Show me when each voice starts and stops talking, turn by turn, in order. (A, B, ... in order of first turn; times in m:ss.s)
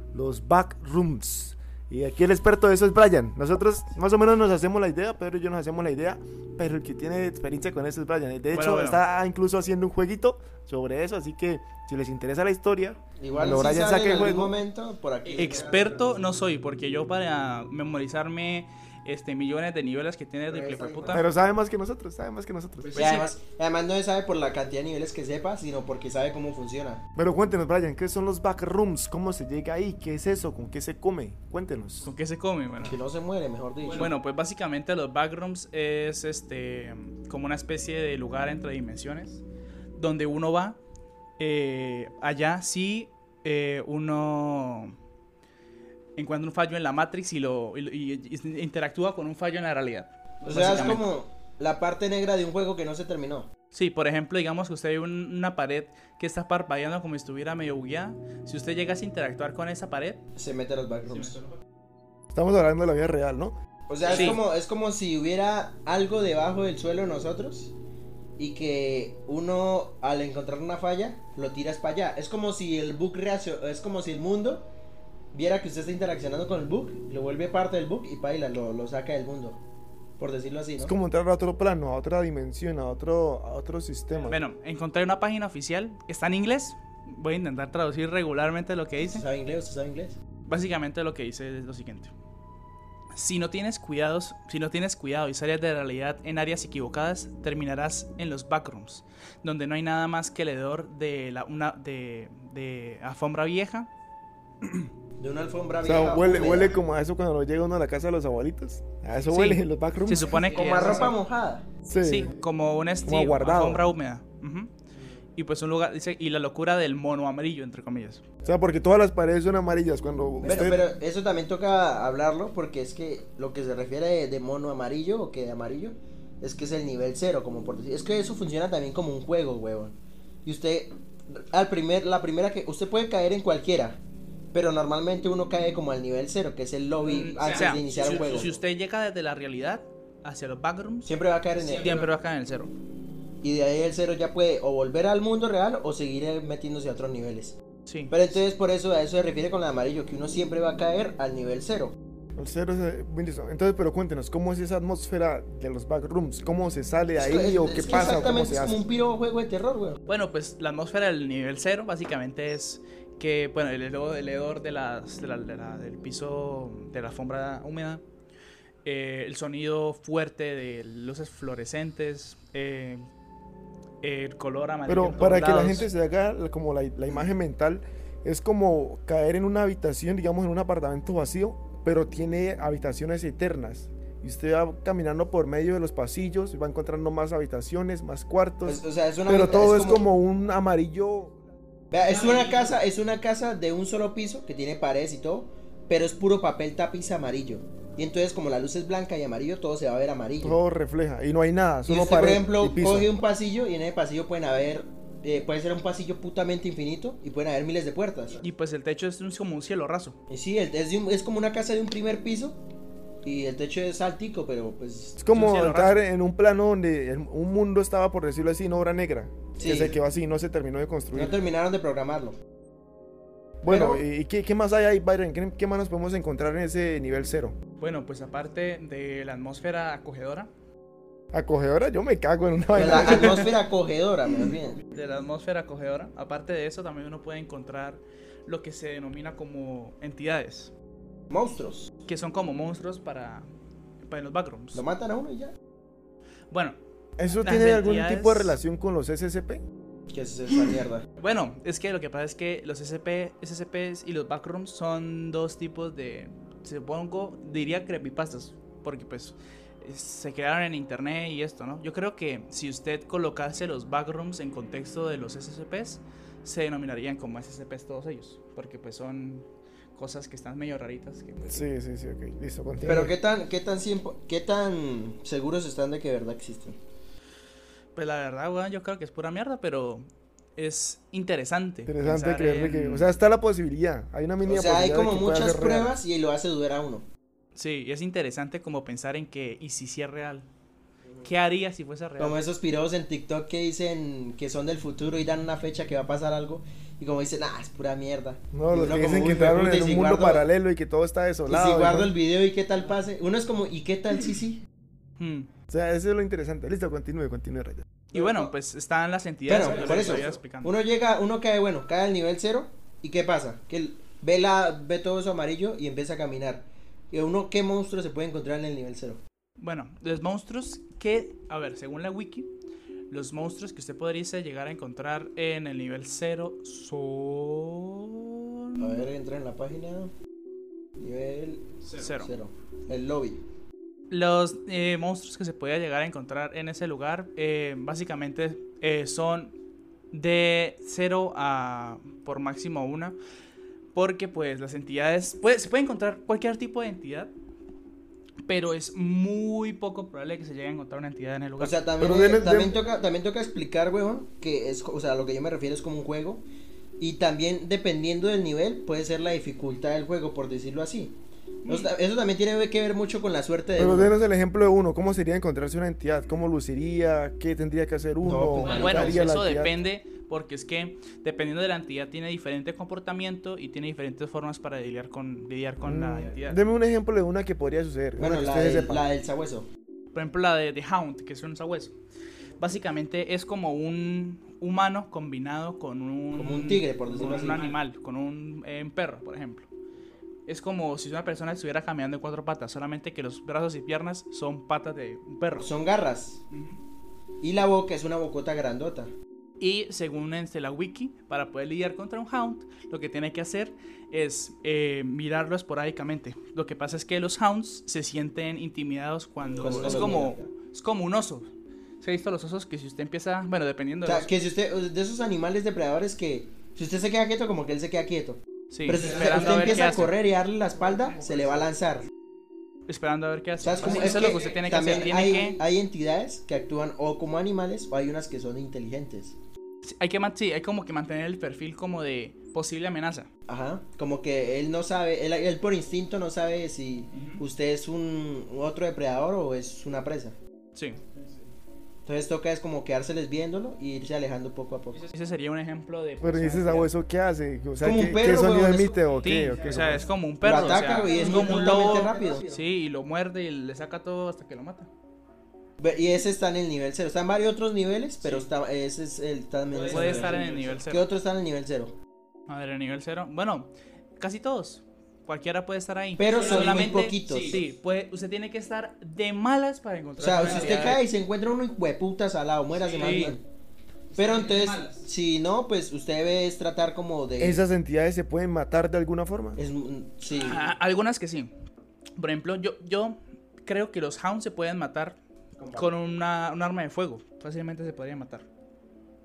0:00.1-0:14.6 A
0:08.5-0:09.0 B
0:13.2-0:16.1 C
0:15.4-0:21.2 B
0:20.5-0:21.2 C
0:21.1-0:23.2 A
0:22.9-0:23.3 B
0:23.0-0:27.0 C
0:27.2-0:32.1 A
0:32.0-0:33.0 B
0:32.8-0:34.1 C
0:33.9-0:39.4 B
0:40.0-0:40.8 B
0:41.4-0:45.0 B
0:46.2-0:51.0 B
0:50.4-0:53.5 C
0:53.7-1:00.2 B
1:00.4-1:01.4 C
1:01.2-1:01.6 B
1:02.3-1:03.6 A
1:03.9-1:07.8 C
1:04.1-1:04.4 B
1:08.4-1:14.7 C
1:15.3-1:19.6 C
1:20.2-1:20.9 C
1:20.8-1:24.4 A
1:24.3-1:29.2 B
1:29.0-1:30.2 C
1:30.5-1:32.1 B
1:33.1-1:43.9 B
1:44.6-1:44.9 B
1:45.2-1:46.8 C
1:45.8-1:51.0 A
1:49.3-1:51.2 B
1:50.3-1:51.7 C
1:51.8-1:52.4 A
1:52.0-1:54.7 B
1:53.0-1:53.9 A
1:55.4-1:58.2 B
1:58.4-2:00.8 A
2:00.4-2:14.0 C
2:14.5-2:18.5 C
2:17.0-2:21.1 B
2:21.0-2:22.0 C
2:21.6-2:22.7 B
2:23.4-2:27.6 C
2:27.9-2:28.1 B
2:28.1-2:32.0 C
2:32.4-2:38.8 A
2:37.2-2:40.0 C
2:40.1-2:48.0 B
2:48.8-2:53.0 B
2:54.0-2:55.9 B
2:54.9-3:11.4 A
3:08.6-3:10.1 C
3:11.9-3:20.6 C
3:20.4-3:23.1 A
3:21.9-3:28.4 C
3:28.4-3:30.2 B
3:30.3-3:32.6 C
3:33.2-3:35.2 C
3:35.2-3:41.4 A
3:35.3-3:36.0 B
3:39.6-3:40.0 C
3:41.1-3:42.4 C
3:43.6-3:47.6 A
3:43.7-3:44.0 C
3:47.8-3:50.5 B
3:51.3-3:53.5 A
3:52.7-3:54.8 C
3:54.9-4:00.7 B
4:01.3-4:01.9 C
4:02.1-4:03.5 B
4:04.1-4:04.8 B
4:04.7-4:05.5 C
4:06.5-4:06.8 B
4:07.2-4:09.6 A
4:07.4-4:08.6 B
4:10.1-4:11.0 C
4:11.2-4:31.7 B
4:31.5-4:33.2 A
4:32.8-4:36.8 C
4:38.0-4:40.0 B
4:40.6-4:43.1 B
4:41.9-4:46.0 A
4:44.4-4:47.1 C
4:47.6-4:50.5 B
4:51.2-4:52.4 B
4:52.2-5:00.5 C
4:58.5-5:02.1 A
5:01.5-5:04.6 C
5:05.2-5:05.5 B
5:05.7-5:07.9 A
5:08.1-5:10.8 B
5:08.1-5:08.5 C
5:09.5-5:19.2 C
5:19.6-5:22.5 B
5:23.1-5:29.0 B
5:28.8-5:30.1 C
5:31.0-5:33.4 C
5:31.8-5:32.3 B
5:34.1-5:39.5 B
5:40.1-5:43.2 B
5:44.0-5:47.3 B
5:48.5-5:51.8 B
5:51.6-5:56.4 C
5:52.0-5:52.8 A
5:57.0-6:01.2 C
6:01.7-6:01.9 B
6:01.7-6:04.1 C
6:03.8-6:09.8 A
6:08.2-6:09.3 C
6:08.6-6:16.6 B
6:15.8-6:19.1 A
6:18.2-6:19.7 C
6:20.1-6:21.9 B
6:22.6-6:29.7 B
6:26.4-6:27.7 C
6:30.5-6:35.7 B
6:35.6-6:36.4 C
6:37.4-6:39.1 C
6:39.6-6:51.5 B
6:49.6-6:50.5 C
6:52.0-6:54.3 B
6:54.0-7:02.1 C
6:58.7-7:00.2 B
7:02.9-7:05.6 B
7:03.6-7:09.4 C
7:09.8-7:13.3 B
7:13.5-7:20.4 C
7:17.1-7:17.4 B
7:20.8-7:21.0 B
7:22.1-7:25.0 C
7:25.0-7:26.9 B
7:26.2-7:30.1 A
7:27.8-7:29.0 C
7:29.2-7:34.9 B
7:30.4-7:32.6 C
7:35.8-7:42.0 C
7:38.2-7:38.5 B
7:39.8-7:41.0 B
7:42.5-7:51.0 B
7:46.2-7:47.6 C
7:50.2-7:53.4 C
7:52.9-7:53.4 B
7:54.1-7:55.0 B
7:54.2-7:57.6 C
7:57.4-7:59.6 A
7:59.6-8:00.7 C
8:00.4-8:01.5 B
8:02.2-8:05.2 B
8:05.6-8:05.9 C
8:05.7-8:08.5 B